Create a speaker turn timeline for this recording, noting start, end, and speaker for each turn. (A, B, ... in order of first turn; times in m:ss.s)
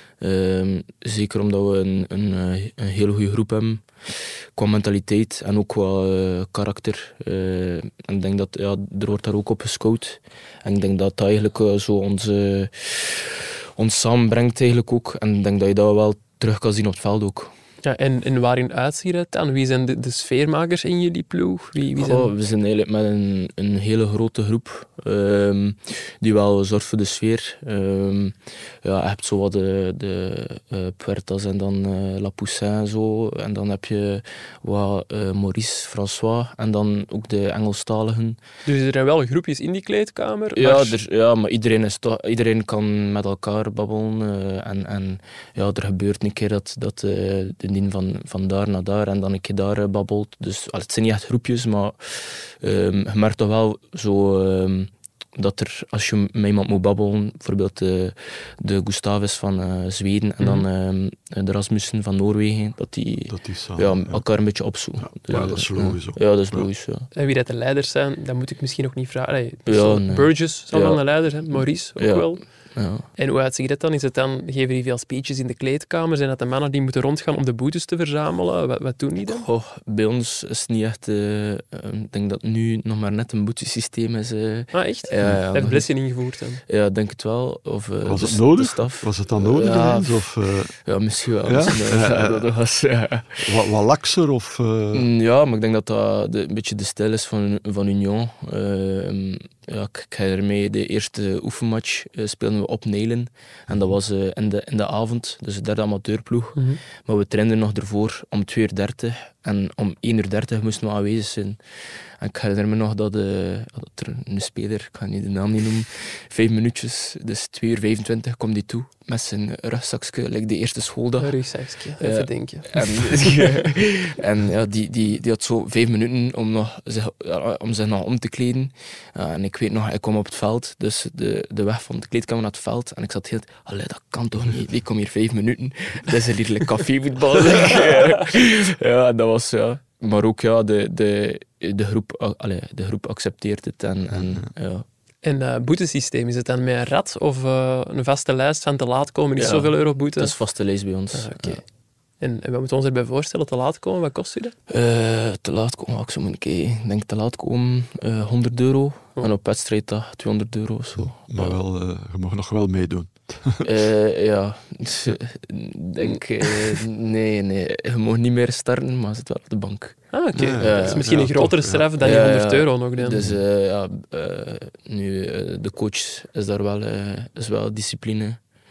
0:00.2-0:17.5 A
0:17.8-0:22.3 B
0:22.0-0:38.4 A
0:38.7-0:41.0 B
0:40.6-1:07.1 A
1:00.4-1:00.7 B
1:03.3-1:04.2 C
1:05.0-1:06.7 C
1:07.2-1:12.4 B
1:09.7-1:13.1 A
1:13.2-1:19.5 B
1:19.3-1:25.9 A
1:24.7-1:26.6 B
1:26.7-1:30.1 A
1:28.1-1:30.9 C
1:30.8-1:33.5 A
1:31.4-1:32.5 C
1:33.4-1:35.1 C
1:34.9-1:51.6 A
1:52.2-2:24.8 A
2:01.2-2:03.5 B
2:24.1-2:24.5 C
2:25.2-2:30.4 B
2:29.4-2:31.6 A
2:31.1-2:31.7 B
2:32.2-2:34.5 B
2:34.7-2:41.6 A
2:41.0-2:43.7 C
2:43.6-2:50.0 A
2:46.0-2:46.8 B
2:50.1-2:53.2 B
2:50.4-2:51.9 C
2:50.6-2:51.1 A
2:52.0-2:58.4 A